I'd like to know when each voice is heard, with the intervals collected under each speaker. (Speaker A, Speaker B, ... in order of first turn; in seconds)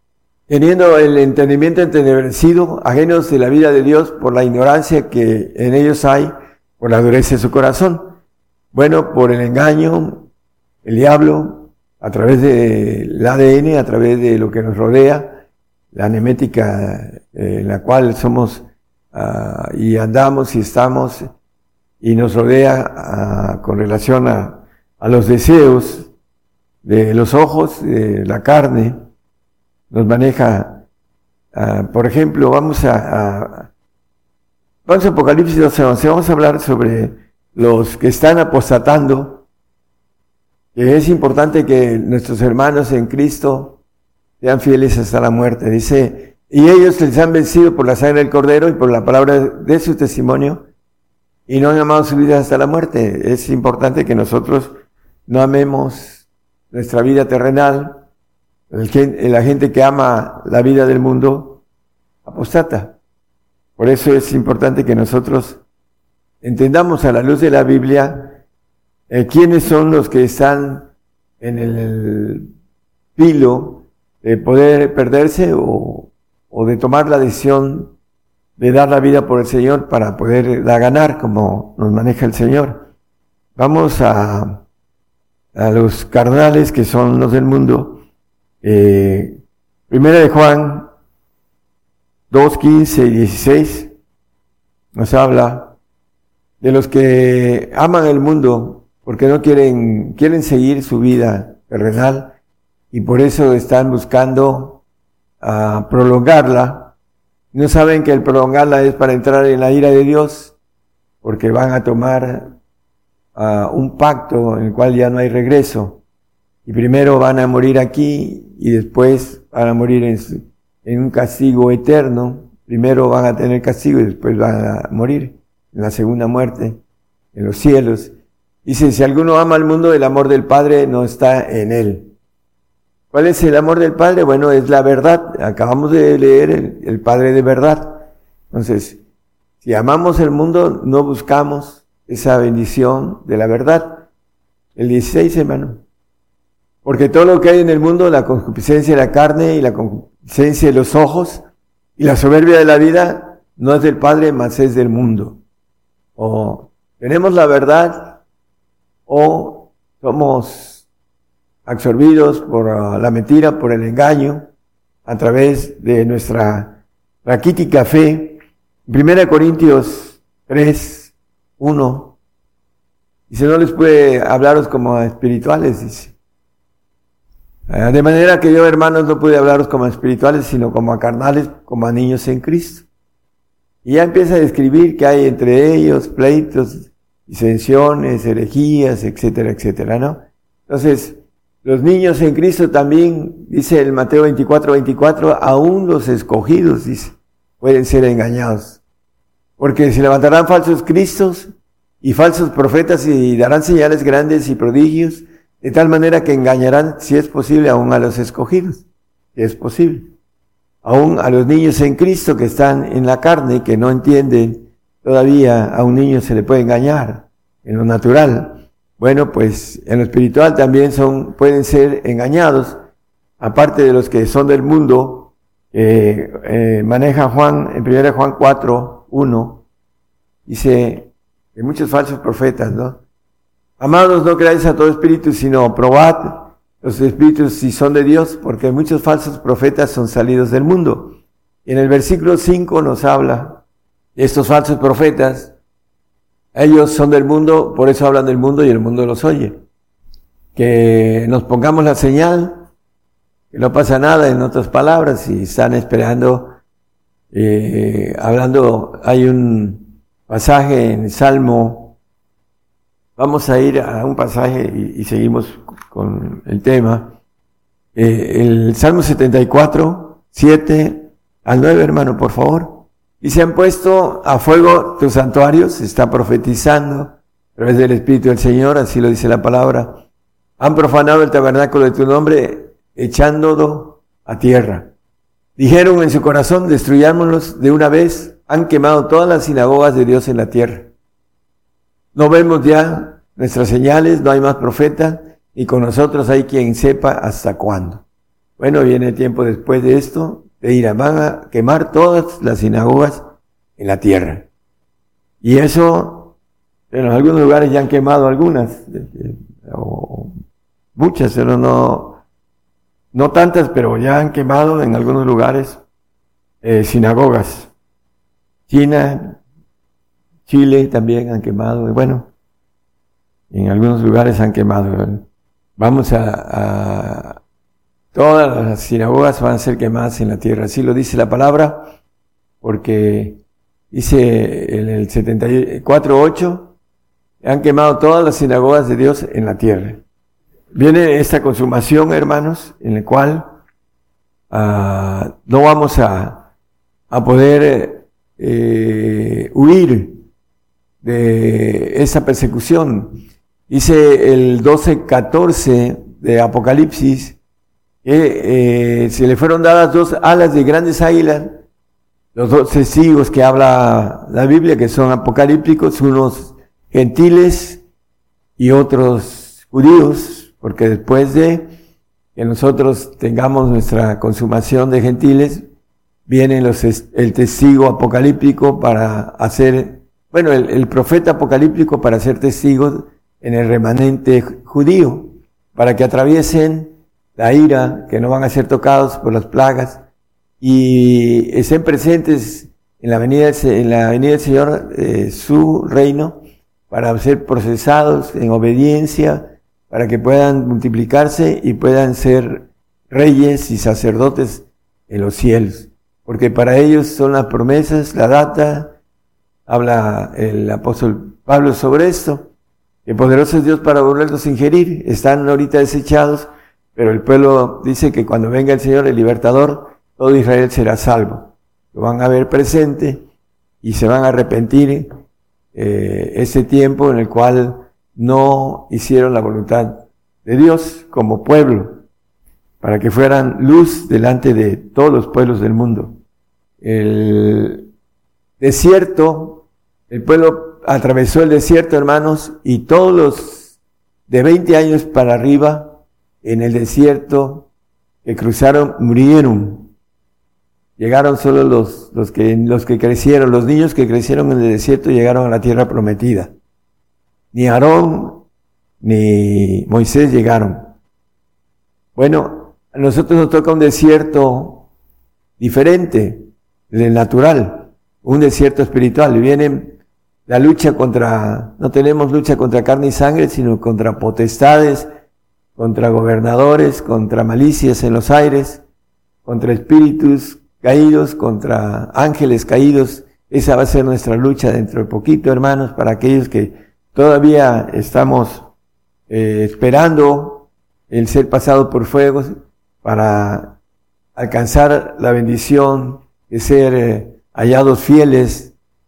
Speaker A: 0.5-8.2, 8.7-10.3, 10.8-21.3, 22.0-26.1, 26.8-28.9, 29.9-30.8, 31.5-33.7, 34.9-39.4, 40.7-43.8, 44.4-50.6, 51.5-54.7, 55.3-58.0, 58.7-61.6, 62.2-63.0, 63.8-65.6, 66.4-68.4, 69.1-70.9, 71.4-72.5, 73.2-77.9, 78.6-82.9, 83.5-84.6, 85.5-88.0, 88.6-89.4, 89.9-90.9, 92.3-93.9, 94.9-95.7, 96.6-102.3, 102.9-104.8, 105.4-106.9, 107.5-110.5, 111.2-112.5, 113.3-116.0, 116.6-126.8, 127.3-128.1, 128.6-132.1, 133.1-139.0, 139.6-144.1, 144.8-145.8, 146.8-151.4, 152.0-155.4, 156.2-158.2, 159.1-160.8, 161.7-164.5, 165.1-172.1, 173.3-176.1, 177.7-182.8, 183.8-198.8, 199.6-201.5, 202.0-210.1, 210.8-222.8, 223.4-229.6, 230.5-233.0, 233.8-243.6, 244.2-245.5, 246.5-249.6, 250.5-252.7, 253.5-256.6, 257.3-261.9, 263.2-267.1, 267.9-280.0, 280.6-284.9, 285.6-290.9, 292.1-298.0, 298.6-304.5, 305.4-306.3, 306.9-310.3, 310.9-312.2, 313.1-315.8, 316.6-317.7, 318.7-319.4, 320.5-322.3, 323.5-325.2, 325.8-327.4, 328.1-331.9, 332.6-333.4, 333.9-336.7, 337.4-340.0, 340.7-343.6, 344.5-346.5, 347.1-350.2, 351.0-357.4, 358.0-361.6, 362.3-367.8, 368.6-371.7, 372.3-375.6, 376.3-390.0, 390.6-408.9, 409.7-412.5, 413.1-423.2, 423.8-425.1, 425.7-432.0, 432.8-436.2, 436.8-437.9, 438.6-443.8, 444.3-447.7, 448.2-449.9, 451.0-456.5, 457.5-458.4, 459.0-460.9, 462.1-464.9, 465.6-475.1, 475.8-478.8, 479.4-488.7, 489.3-493.8, 494.3-498.7